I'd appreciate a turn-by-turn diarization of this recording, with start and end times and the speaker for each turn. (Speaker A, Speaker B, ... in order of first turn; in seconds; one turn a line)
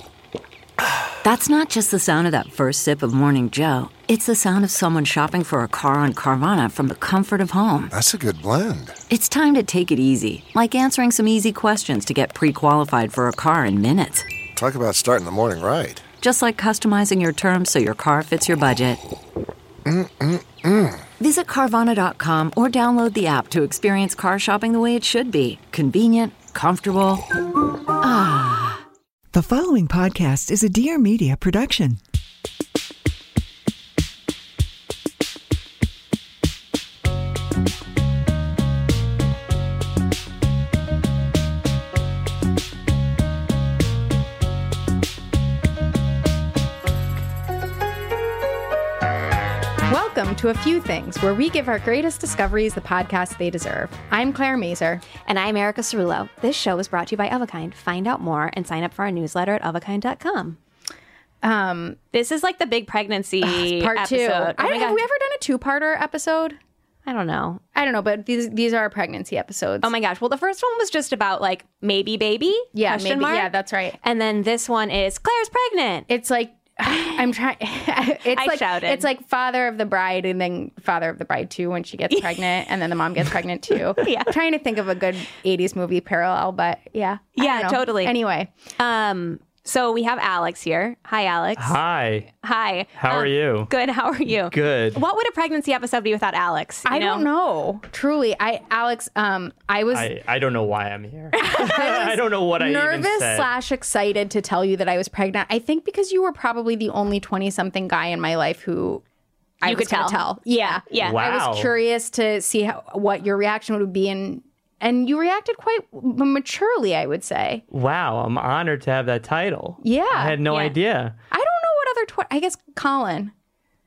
Speaker A: 1.2-7.9
Speaker B: 7.9-9.0
Speaker A: 9.1-14.3
Speaker B: 14.6-16.1
Speaker A: 16.2-19.0
Speaker B: 19.9-21.0
Speaker A: 21.2-27.2
Speaker A: 28.0-28.8
Speaker C: 29.3-32.0
Speaker D: 49.9-55.0
Speaker E: 55.2-60.6
Speaker D: 61.4-62.0
Speaker E: 62.1-65.0
Speaker D: 63.4-66.6
Speaker E: 67.0-67.6
Speaker D: 67.7-69.9
Speaker E: 69.8-76.1
Speaker D: 72.7-74.0
Speaker D: 76.1-88.5
Speaker E: 76.8-77.2
Speaker E: 78.3-79.1
Speaker E: 82.1-82.4
Speaker E: 84.0-84.3
Speaker E: 87.4-88.2
Speaker E: 88.8-91.8
Speaker F: 91.6-92.3
Speaker E: 92.4-97.3
Speaker F: 93.0-93.7
Speaker F: 94.3-95.0
Speaker D: 96.8-100.1
Speaker F: 99.9-103.5
Speaker D: 101.3-109.0
Speaker D: 109.6-117.6
Speaker E: 109.6-111.2
Speaker F: 111.0-111.7
Speaker F: 117.7-121.1
Speaker D: 119.8-120.4
Speaker E: 120.5-120.7
Speaker D: 121.3-123.3